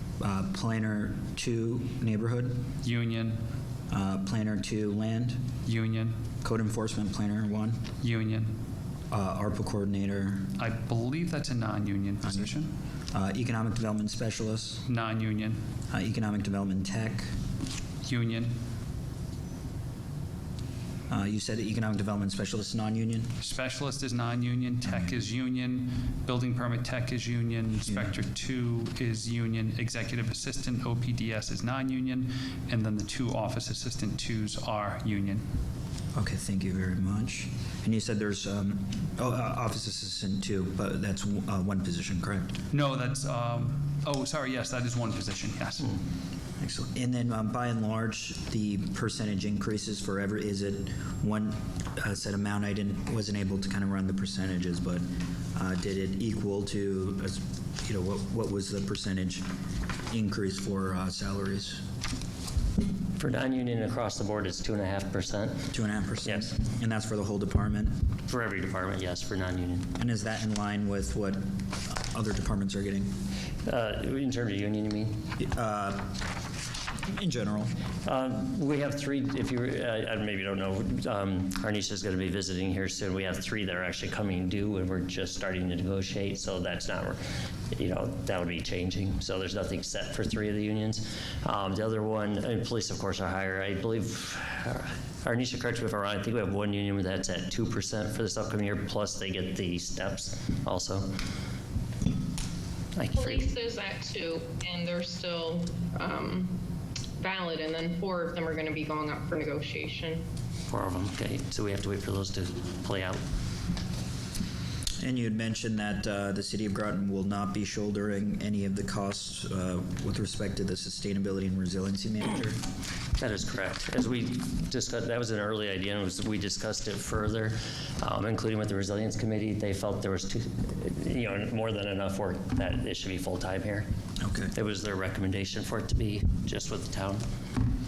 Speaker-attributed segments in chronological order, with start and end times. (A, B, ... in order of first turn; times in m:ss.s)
0:00.2-0:02.6 A
0:02.8-0:03.4 B
0:03.9-0:05.4 A
0:05.7-0:06.2 B
0:06.4-0:07.8 A
0:08.0-0:08.5 B
0:09.1-0:10.6 A
0:10.6-0:12.7 B
0:12.2-0:12.6 A
0:13.1-0:14.8 A
0:14.9-0:15.6 B
0:15.9-0:17.3 A
0:18.0-0:18.6 B
0:21.1-0:23.3 A
0:23.4-0:35.4 B
0:24.8-0:25.2 A
0:27.8-0:28.1 A
0:36.2-0:42.6 A
0:42.7-0:46.0 B
0:46.6-0:59.5 A
1:00.1-1:01.8 A
1:03.2-1:05.7 C
1:05.7-1:08.0 A
1:06.2-1:06.5 C
1:08.3-1:09.9 C
1:10.0-1:13.1 A
1:13.6-1:15.2 C
1:15.4-1:16.2 A
1:17.1-1:17.7 A
1:18.0-1:27.2 C
1:27.7-1:41.1 C
1:43.0-1:43.5 C
1:43.1-1:46.5 D
1:47.2-1:50.2 D
1:50.7-1:53.2 C
1:55.0-2:02.6 A
2:03.2-2:13.9 C
2:14.2-2:14.5 A
2:14.5-2:17.2 C